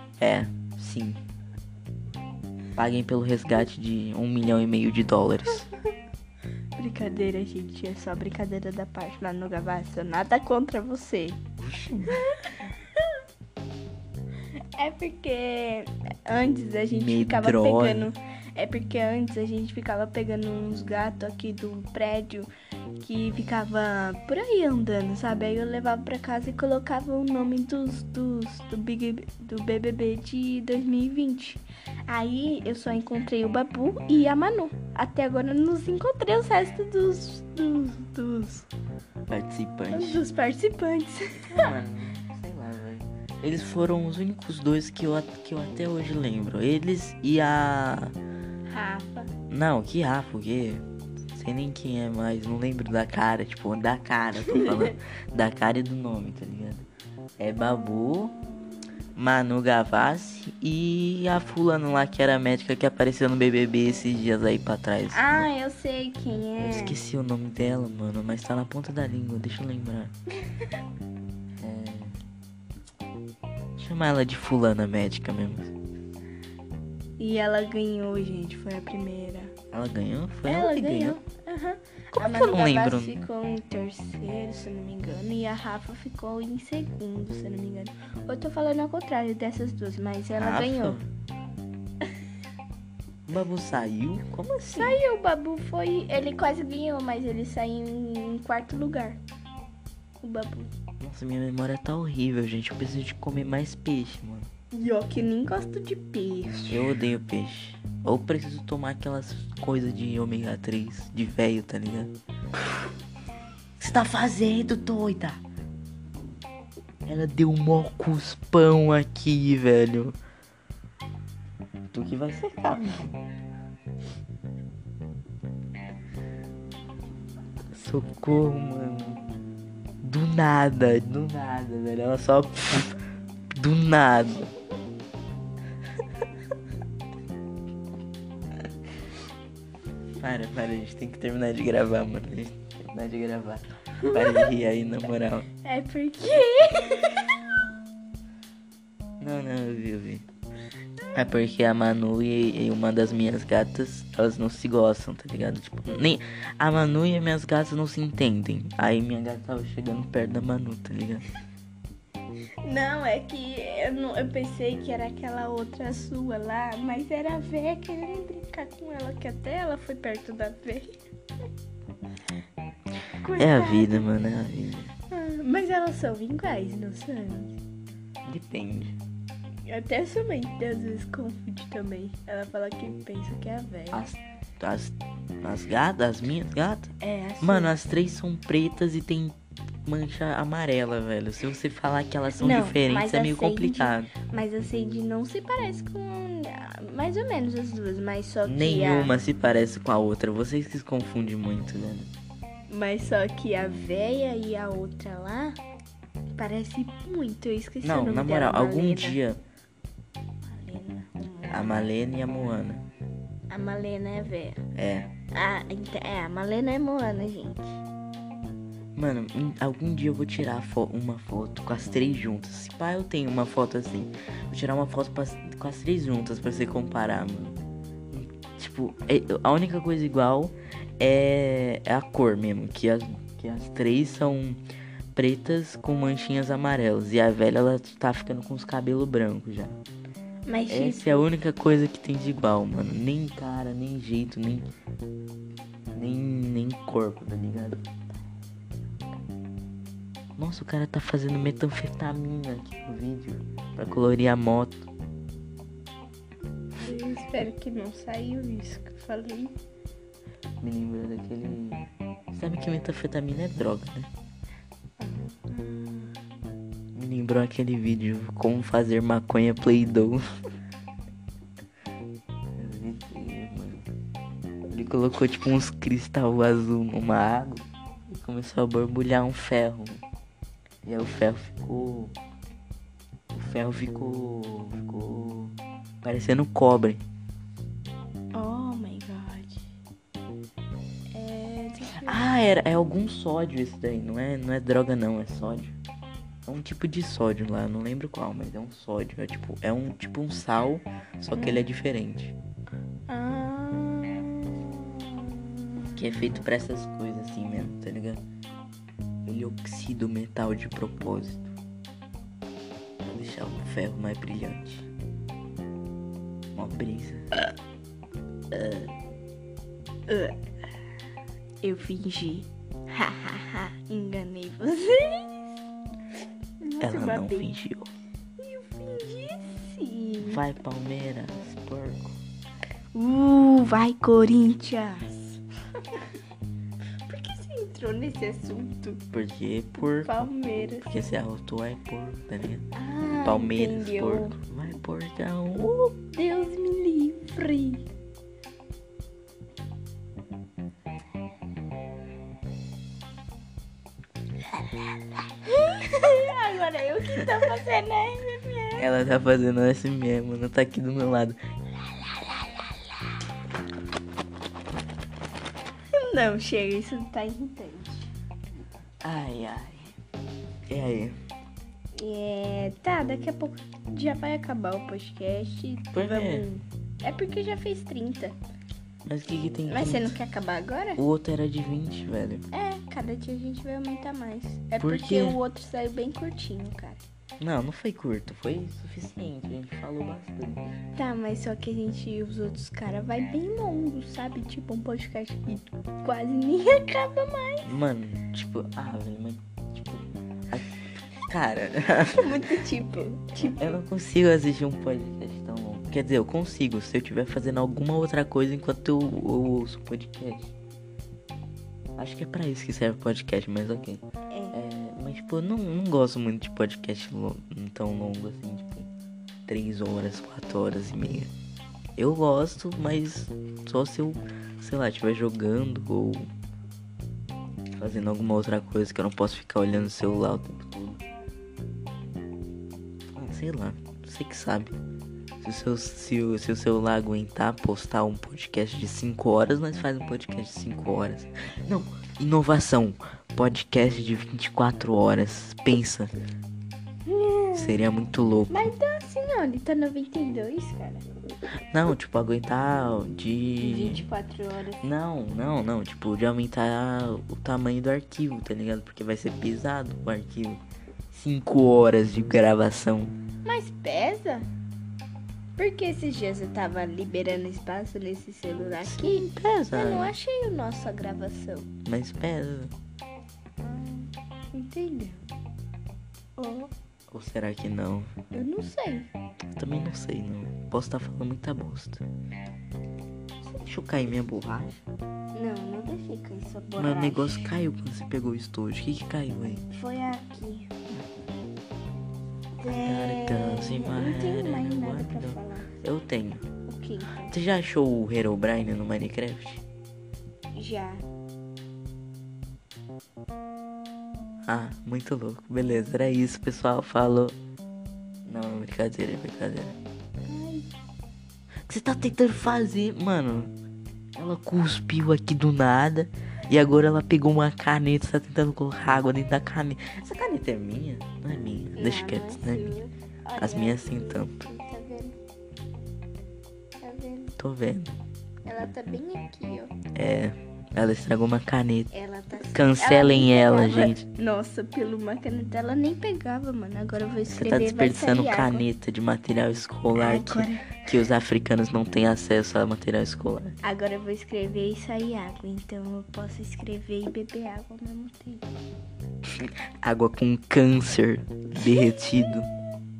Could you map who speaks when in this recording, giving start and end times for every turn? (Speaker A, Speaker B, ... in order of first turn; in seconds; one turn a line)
Speaker A: 0.2-1.2
Speaker A: 2.8-5.7
Speaker B: 6.8-11.4
Speaker A: 11.6-12.3
Speaker B: 12.1-13.0
Speaker B: 14.8-38.7
Speaker A: 16.9-18.1
Speaker A: 39.3-40.2
Speaker B: 39.9-41.7
Speaker A: 41.5-48.1
Speaker B: 48.7-49.3
Speaker A: 49.5-56.9
Speaker B: 54.5-54.9
Speaker A: 57.4-58.3
Speaker A: 59.1-65.5
Speaker B: 65.1-67.0
Speaker A: 66.6-70.1
Speaker A: 71.6-72.2
Speaker A: 73.8-75.7
Speaker B: 77.2-79.5
Speaker A: 79.7-81.2
Speaker B: 80.5-91.0
Speaker A: 82.1-83.2
Speaker A: 90.4-91.1
Speaker A: 93.3-95.0
Speaker B: 94.7-99.2
Speaker B: 100.2-100.7
Speaker A: 101.0-104.5
Speaker B: 104.7-106.9
Speaker A: 106.7-112.1
Speaker A: 113.8-115.4
Speaker A: 117.0-120.2
Speaker A: 121.9-123.1
Speaker A: 127.7-129.2
Speaker A: 130.0-133.0
Speaker A: 133.5-134.5
Speaker A: 140.2-145.5
Speaker B: 144.0-144.5
Speaker B: 145.6-147.4
Speaker A: 149.2-150.2
Speaker A: 151.1-161.2
Speaker B: 162.6-171.0
Speaker B: 173.2-174.1
Speaker A: 173.4-174.9
Speaker B: 175.1-177.6
Speaker A: 178.2-178.9
Speaker B: 179.7-184.0
Speaker A: 183.9-194.1
Speaker B: 187.0-187.7
Speaker B: 192.4-199.1
Speaker A: 198.4-202.1
Speaker B: 202.7-205.6
Speaker B: 206.4-209.2
Speaker A: 207.8-209.4
Speaker B: 210.5-211.9
Speaker A: 211.5-212.8
Speaker B: 213.5-214.6
Speaker A: 214.7-215.1
Speaker B: 215.3-217.8
Speaker A: 218.9-227.6
Speaker A: 228.1-234.6
Speaker A: 235.1-239.8
Speaker B: 240.5-241.3
Speaker A: 240.7-244.7
Speaker A: 245.9-247.8
Speaker A: 250.4-254.8
Speaker B: 256.8-259.6
Speaker A: 260.6-264.1
Speaker B: 265.0-266.1
Speaker A: 266.9-270.2
Speaker A: 272.6-273.8
Speaker A: 274.7-280.0
Speaker A: 280.8-282.1
Speaker A: 283.3-287.0
Speaker B: 288.3-289.6
Speaker B: 291.1-292.2
Speaker A: 292.0-295.8
Speaker A: 296.4-302.3
Speaker B: 301.4-301.6
Speaker B: 303.1-306.4
Speaker A: 305.9-308.2
Speaker A: 309.2-311.5
Speaker A: 313.0-314.9
Speaker A: 316.5-317.4
Speaker A: 318.5-318.9
Speaker B: 320.1-320.4
Speaker B: 321.6-325.6
Speaker B: 326.6-327.5
Speaker A: 326.8-327.9
Speaker B: 328.4-330.4
Speaker A: 330.2-332.2
Speaker B: 332.9-336.1
Speaker B: 337.1-339.0
Speaker A: 339.1-342.7
Speaker B: 339.8-340.9
Speaker B: 342.7-344.4
Speaker A: 343.2-345.7
Speaker B: 345.8-347.9
Speaker B: 355.4-358.9
Speaker A: 358.8-361.4
Speaker B: 365.9-368.1
Speaker A: 369.0-369.9
Speaker A: 370.7-371.1
Speaker B: 371.9-378.4
Speaker A: 375.9-376.5
Speaker A: 379.1-380.2
Speaker B: 379.7-381.0
Speaker A: 381.0-382.4
Speaker B: 382.5-387.0
Speaker A: 384.8-385.4
Speaker A: 387.4-390.8
Speaker B: 390.9-397.7
Speaker A: 397.6-402.6
Speaker B: 402.2-403.8
Speaker A: 403.4-410.5
Speaker A: 412.0-418.9
Speaker B: 414.3-414.6
Speaker A: 419.5-421.3
Speaker A: 422.0-426.3
Speaker A: 427.8-431.0
Speaker A: 433.1-434.8
Speaker A: 435.4-446.1
Speaker B: 447.1-447.9
Speaker A: 447.5-448.7
Speaker B: 448.5-451.0
Speaker A: 451.7-454.0
Speaker B: 453.6-454.8
Speaker A: 454.8-463.1
Speaker B: 463.4-464.5
Speaker B: 465.6-471.7
Speaker A: 468.8-470.1
Speaker A: 471.8-472.7
Speaker B: 473.6-475.2
Speaker B: 476.4-476.7
Speaker A: 477.1-478.1
Speaker B: 478.3-479.1
Speaker A: 479.6-482.0
Speaker A: 483.4-484.8
Speaker B: 485.3-487.5
Speaker A: 486.8-489.6
Speaker B: 489.7-490.7
Speaker B: 492.6-495.7
Speaker A: 492.6-496.4
Speaker B: 496.7-497.3
Speaker A: 497.3-499.6
Speaker B: 500.5-501.0
Speaker A: 504.4-507.4
Speaker A: 508.2-509.7
Speaker B: 510.3-510.7
Speaker A: 511.7-513.5
Speaker A: 514.2-522.7
Speaker B: 521.8-525.1
Speaker A: 523.4-524.4
Speaker B: 526.8-527.3
Speaker A: 527.4-528.0
Speaker B: 528.5-529.7
Speaker A: 529.9-531.9
Speaker B: 531.9-538.6
Speaker A: 532.4-534.0
Speaker A: 537.3-543.6
Speaker B: 539.9-540.9
Speaker B: 543.6-548.6
Speaker A: 549.2-552.5
Speaker B: 551.6-552.2